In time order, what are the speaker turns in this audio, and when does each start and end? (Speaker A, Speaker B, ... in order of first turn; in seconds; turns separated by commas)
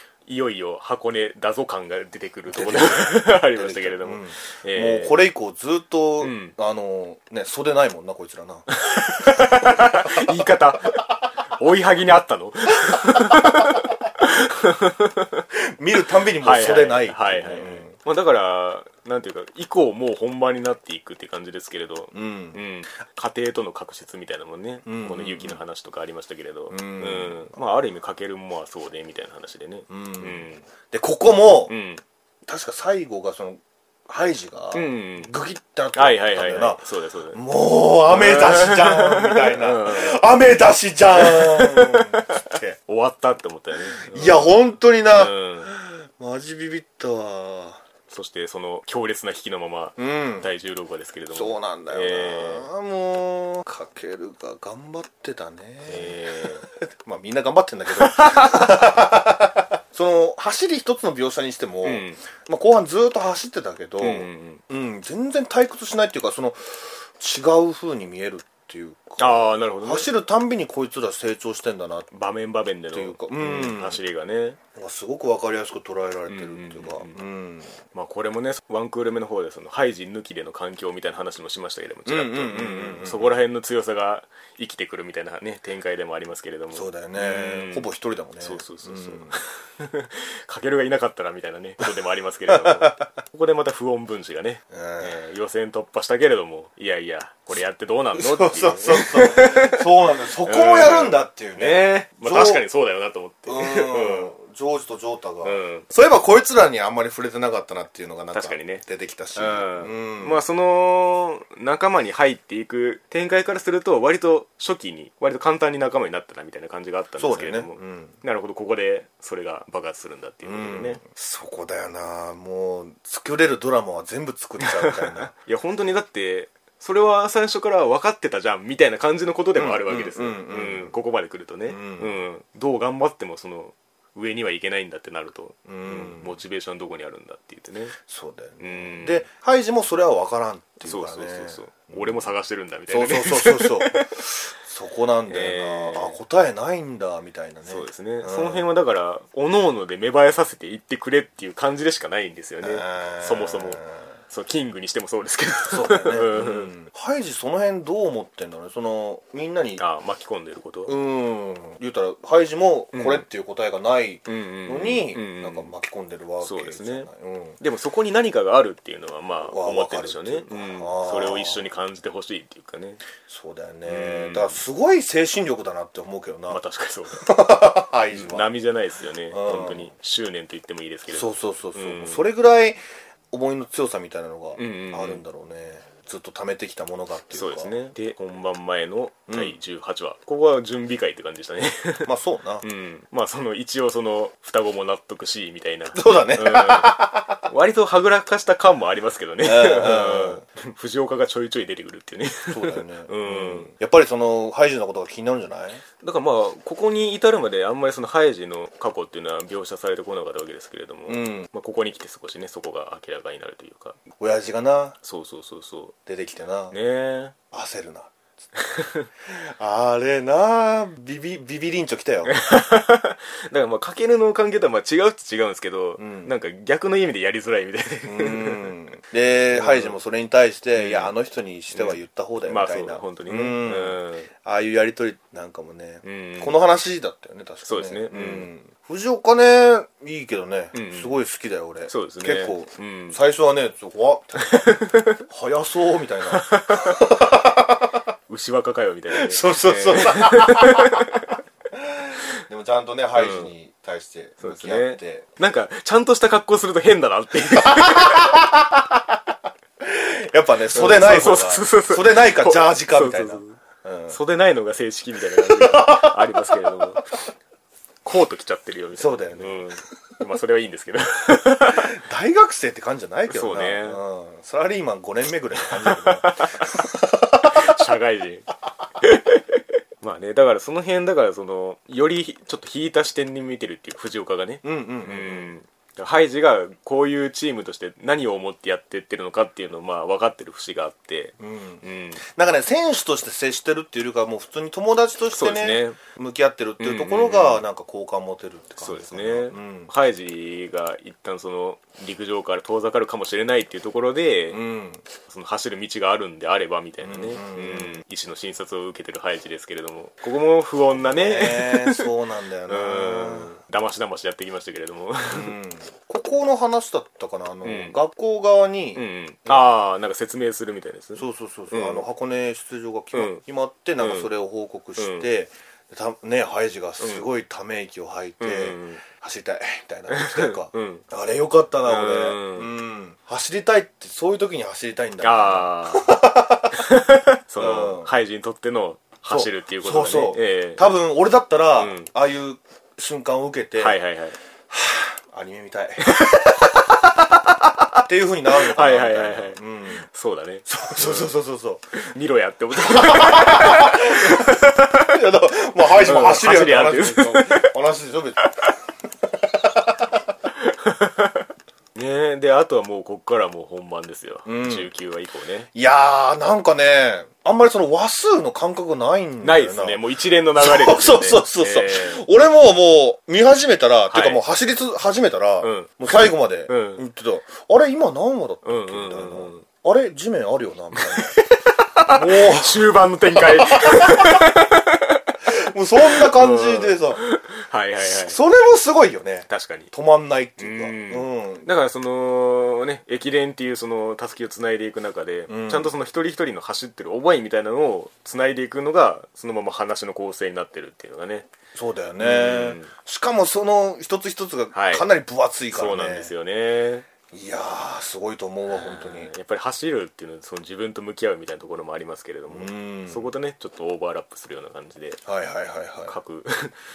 Speaker A: 0.2-5.2, Speaker B: 2.5-8.7, Speaker A: 6.2-6.5, Speaker A: 8.7-15.4, Speaker B: 9.2-10.5, Speaker B: 12.9-13.8, Speaker B: 15.6-17.9, Speaker A: 16.4-30.6, Speaker B: 22.1-22.6, Speaker B: 24.9-25.6, Speaker B: 26.7-27.6, Speaker B: 29.9-31.7, Speaker A: 31.7-32.0, Speaker B: 32.5-42.8, Speaker A: 34.7-35.3, Speaker A: 36.0-37.4, Speaker A: 38.1-40.2, Speaker A: 41.1-44.5, Speaker B: 43.9-47.8, Speaker A: 45.1-45.7, Speaker A: 48.1-52.7, Speaker B: 50.0-50.5, Speaker B: 51.3-72.1, Speaker A: 55.9-56.6, Speaker A: 57.9-58.8, Speaker A: 61.8-62.2, Speaker A: 64.0-64.6, Speaker A: 69.2-70.1, Speaker A: 72.1-74.6, Speaker B: 72.9-74.0, Speaker B: 74.7-77.8, Speaker A: 76.3-77.2, Speaker A: 77.9-104.3, Speaker B: 82.0-83.3, Speaker B: 86.7-89.4, Speaker B: 92.5-93.0, Speaker B: 94.7-95.2, Speaker B: 98.1-102.6, Speaker B: 103.5-110.4, Speaker A: 105.4-105.9, Speaker A: 108.3-108.8, Speaker A: 109.3-121.0, Speaker B: 117.2-118.1, Speaker B: 120.4-125.3, Speaker A: 124.6-138.0, Speaker B: 129.5-130.9, Speaker B: 131.7-132.2, Speaker B: 135.7-136.4, Speaker B: 138.0-142.2, Speaker A: 138.6-139.2, Speaker A: 140.8-144.1, Speaker B: 142.9-148.7, Speaker A: 145.3-146.2, Speaker A: 147.7-156.7, Speaker B: 152.6-154.0, Speaker B: 155.7-159.8, Speaker A: 159.8-160.9, Speaker B: 160.9-167.6, Speaker A: 162.9-163.2, Speaker A: 164.2-165.7, Speaker A: 166.4-173.0, Speaker B: 169.4-171.6, Speaker B: 173.3-176.6, Speaker A: 173.8-174.6, Speaker A: 176.5-177.3, Speaker B: 177.2-178.5, Speaker A: 178.1-182.2, Speaker B: 179.3-179.9, Speaker B: 181.1-182.8, Speaker B: 183.3-187.7, Speaker A: 184.6-185.2, Speaker A: 187.3-192.1, Speaker B: 189.3-189.6, Speaker B: 192.1-192.6, Speaker A: 192.6-203.7, Speaker B: 195.9-197.4, Speaker B: 199.4-200.4, Speaker B: 202.5-205.8, Speaker A: 206.0-214.0, Speaker B: 211.1-211.5, Speaker B: 214.2-215.0, Speaker A: 215.0-215.9, Speaker B: 216.1-216.8, Speaker A: 216.7-217.3, Speaker B: 217.5-218.1, Speaker A: 218.6-219.1, Speaker B: 219.2-222.3, Speaker A: 222.2-228.7, Speaker B: 226.0-226.3, Speaker B: 228.1-248.0, Speaker A: 229.5-229.9, Speaker A: 230.8-231.1, Speaker A: 231.7-234.3, Speaker A: 236.0-236.6, Speaker A: 237.6-238.5, Speaker A: 240.7-241.1, Speaker A: 241.9-243.2, Speaker A: 244.4-245.2, Speaker A: 246.3-247.0, Speaker A: 248.3-251.3, Speaker B: 249.1-251.2, Speaker B: 251.7-255.2, Speaker A: 253.2-253.5, Speaker A: 254.4-258.4, Speaker B: 257.5-259.2, Speaker B: 259.8-264.2, Speaker A: 260.7-267.2, Speaker B: 265.4-266.6, Speaker A: 268.0-271.9, Speaker B: 268.9-269.6, Speaker B: 271.7-277.8, Speaker A: 273.3-274.0, Speaker A: 275.6-276.7, Speaker A: 277.4-278.5, Speaker A: 279.0-292.2, Speaker B: 284.6-285.5, Speaker B: 291.4-299.9, Speaker A: 295.3-296.0, Speaker A: 296.8-297.6, Speaker A: 298.8-304.6, Speaker B: 304.5-305.0, Speaker A: 305.3-312.1, Speaker B: 307.0-308.0, Speaker B: 310.9-313.6, Speaker A: 312.7-315.5, Speaker B: 315.3-319.6, Speaker A: 317.6-318.0, Speaker A: 318.9-322.1, Speaker B: 321.2-336.9, Speaker A: 323.1-323.4, Speaker A: 324.0-324.3, Speaker A: 325.0-325.3, Speaker A: 327.0-327.2, Speaker A: 328.4-329.0, Speaker A: 330.1-331.0, Speaker A: 331.8-332.7, Speaker A: 335.2-336.2, Speaker A: 336.7-340.9, Speaker B: 337.6-338.1, Speaker B: 339.3-343.9, Speaker A: 341.8-342.1, Speaker A: 343.8-344.4, Speaker B: 344.7-346.9, Speaker A: 346.0-346.7, Speaker A: 347.3-348.0, Speaker B: 348.0-350.1, Speaker A: 348.5-351.3, Speaker B: 350.7-351.8, Speaker A: 351.9-355.2, Speaker B: 352.8-358.5, Speaker A: 355.9-357.7, Speaker A: 358.4-358.7, Speaker B: 359.3-360.2, Speaker A: 360.5-365.7, Speaker B: 364.4-364.9, Speaker B: 365.7-370.0, Speaker A: 369.4-372.2, Speaker B: 370.6-381.3, Speaker A: 374.1-374.4, Speaker A: 375.6-377.0, Speaker A: 378.6-379.6, Speaker A: 380.9-385.3, Speaker B: 382.1-384.5, Speaker B: 385.5-387.2, Speaker A: 386.0-388.4, Speaker B: 388.0-391.7, Speaker A: 389.5-389.9, Speaker A: 390.6-401.5, Speaker B: 395.5-395.9, Speaker B: 401.7-406.3, Speaker A: 402.2-402.9, Speaker A: 404.7-405.1, Speaker A: 405.7-407.1, Speaker B: 407.3-409.3, Speaker A: 408.7-415.2, Speaker B: 412.5-413.3, Speaker B: 415.2-416.1, Speaker A: 416.1-416.8